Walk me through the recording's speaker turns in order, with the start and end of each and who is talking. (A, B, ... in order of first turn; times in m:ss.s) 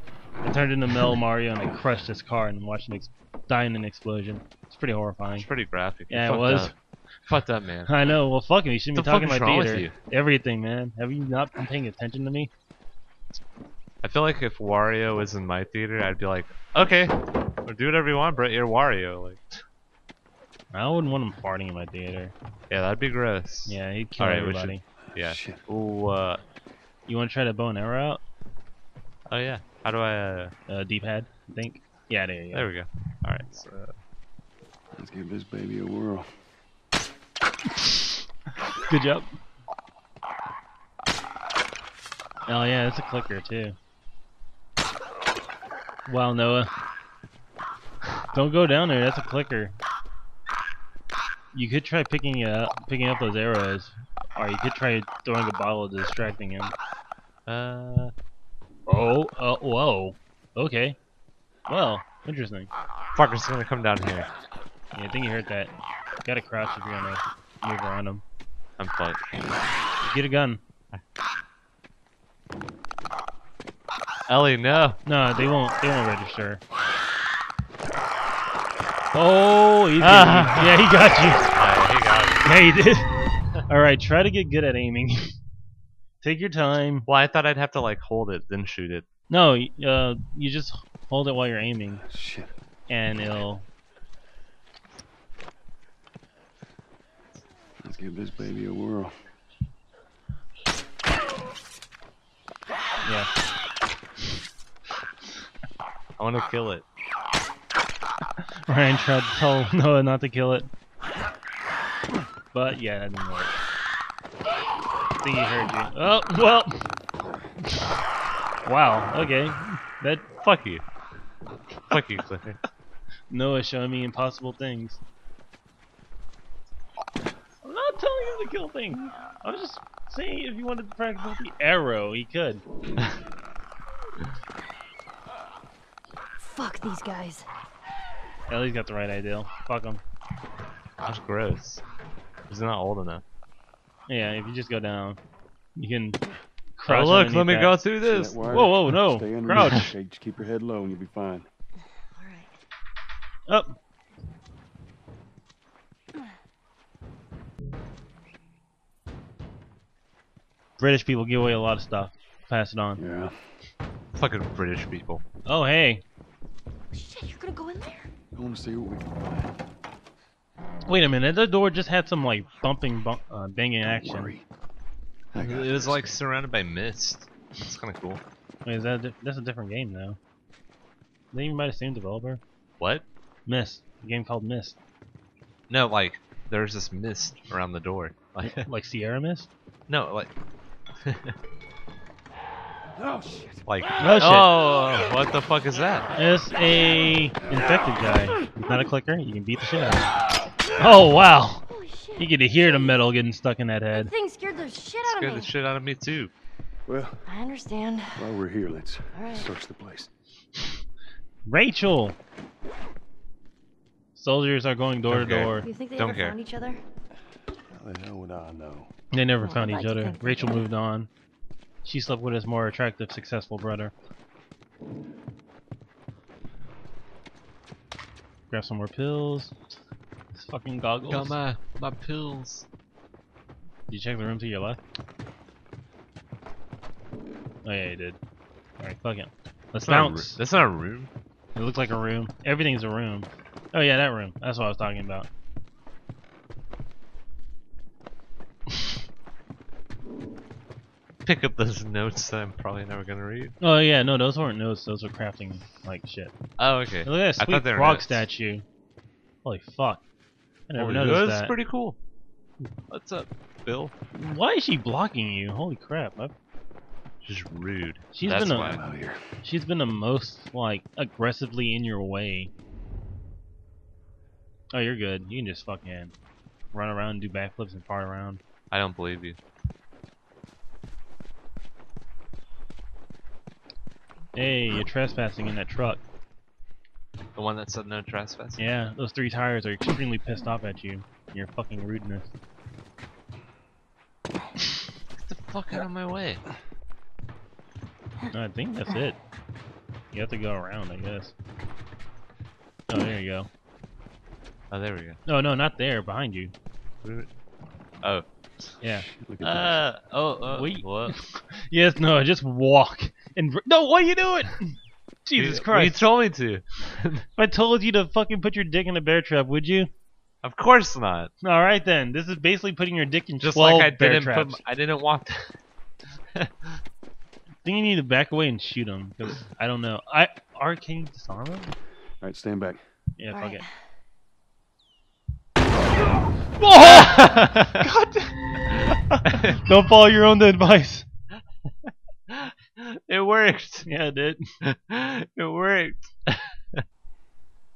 0:00.4-0:05.5 A
0:05.4-0:06.7 B
0:06.1-0:06.7 A
0:07.3-0:08.0 B
0:07.9-0:12.5 A
0:09.0-0:09.9 B
0:14.0-0:19.6 B
0:20.7-0:22.3 A
0:22.7-0:26.4 B
0:23.7-0:24.8 A
0:25.1-0:25.6 C
0:27.1-0:28.2 A
0:29.3-0:30.5 B
0:30.7-0:32.7 A
0:32.5-0:33.9 B
0:34.9-0:36.3 C
0:38.8-0:39.4 A
0:42.5-0:43.8 A
0:46.1-0:46.7 A
0:48.3-0:49.8 A
0:51.5-0:56.7 A
0:57.5-0:58.1 B
0:58.9-1:01.0 A
1:01.7-1:02.7 A
1:03.2-1:04.3 B
1:05.0-1:05.7 A
1:06.2-1:08.2 A
1:08.8-1:09.2 B
1:10.0-1:10.6 A
1:14.3-1:15.0 B
1:15.1-1:16.6 A
1:19.1-1:21.5 A
1:20.0-1:20.8 B
1:21.5-1:22.5 B
1:22.4-1:23.1 A
1:23.7-1:25.3 A
1:26.2-1:27.1 A
1:27.1-1:29.0 B
1:29.3-1:32.0 A
1:32.0-1:32.5 C
1:32.9-1:33.7 A
1:37.8-1:39.2 C
1:43.0-1:43.3 A
1:46.2-1:46.8 B
1:48.7-1:50.7 A
1:52.5-1:53.6 A
1:55.2-1:56.9 A
1:57.6-1:58.0 A
1:58.7-2:00.3 A
2:00.4-2:00.8 B
2:01.9-2:02.6 B
2:03.3-2:05.0 A
2:07.6-2:12.6 A
2:16.4-2:17.5 D
2:18.5-2:20.0 A
2:21.0-2:21.8 B
2:22.5-2:23.2 B
2:24.1-2:25.2 A
2:25.8-2:26.2 A
2:26.8-2:27.8 A
2:26.9-2:28.6 B
2:28.0-2:31.5 C
2:28.5-2:29.9 A
2:32.2-2:32.5 D
2:33.5-2:33.8 A
2:40.8-2:43.0 A
2:43.0-2:43.4 C
2:44.2-2:45.2 B
2:45.5-2:46.0 A
2:46.9-2:48.1 D
2:48.3-2:49.5 C
2:50.9-2:54.3 A
2:53.9-2:54.4 C
2:55.3-2:56.1 C
2:55.3-2:58.2 B
2:58.6-3:00.2 A
3:01.3-3:02.4 A
3:03.5-3:04.8 A
3:05.7-3:08.7 B
3:08.4-3:09.5 A
3:09.9-3:10.3 B
3:11.0-3:11.4 B
3:13.7-3:16.1 B
3:14.0-3:14.5 A
3:16.2-3:20.1 A
3:20.8-3:24.1 A
3:21.7-3:22.3 D
3:23.9-3:25.5 D
3:25.0-3:26.3 B
3:26.9-3:27.2 C
3:27.3-3:28.2 D
3:28.2-3:30.1 C
3:29.1-3:29.5 D
3:31.5-3:32.2 A
3:34.2-3:35.7 A
3:35.1-3:36.4 B
3:35.6-3:36.8 D
3:37.7-3:38.9 C
3:39.1-3:41.1 A
3:39.4-3:40.6 D
3:41.8-3:43.9 A
3:48.5-3:49.6 A
3:50.3-3:51.4 A
3:51.1-3:52.7 B
3:53.9-3:54.8 A
3:57.6-3:58.2 A
3:58.8-4:00.4 A
3:59.9-4:01.1 B
4:01.6-4:05.3 A
4:11.2-4:13.6 B
4:13.6-4:16.3 A
4:16.6-4:18.2 B
4:17.0-4:18.6 A
4:19.4-4:20.0 A
4:20.7-4:21.5 A
4:20.8-4:22.0 B
4:22.9-4:23.9 B
4:24.2-4:26.3 A
4:27.2-4:28.8 B
4:28.1-4:28.8 A
4:28.5-4:29.2 C
4:29.4-4:32.5 A
4:34.7-4:36.1 A
4:36.7-4:38.4 A
4:38.7-4:39.4 B
4:44.4-4:46.0 A
4:47.4-4:48.7 B
4:48.6-4:52.3 A
4:55.2-4:56.4 B
4:58.3-4:59.2 A
5:00.1-5:01.3 A
5:02.9-5:03.5 A
5:04.7-5:05.2 B
5:05.3-5:06.5 A
5:08.8-5:09.1 A
5:08.9-5:09.8 C
5:09.4-5:11.2 B
5:10.5-5:14.8 A
5:15.3-5:16.0 A
5:15.4-5:17.3 B
5:17.4-5:19.9 A
5:20.4-5:21.3 B
5:21.4-5:24.6 A
5:23.4-5:25.5 B
5:26.3-5:26.8 B
5:27.6-5:31.8 A
5:32.2-5:32.8 C
5:33.2-5:33.7 A
5:33.3-5:33.7 D
5:36.6-5:41.1 A
5:37.2-5:37.6 B
5:39.3-5:39.6 B
5:42.3-5:43.9 B
5:43.9-5:44.5 A
5:44.6-5:46.8 B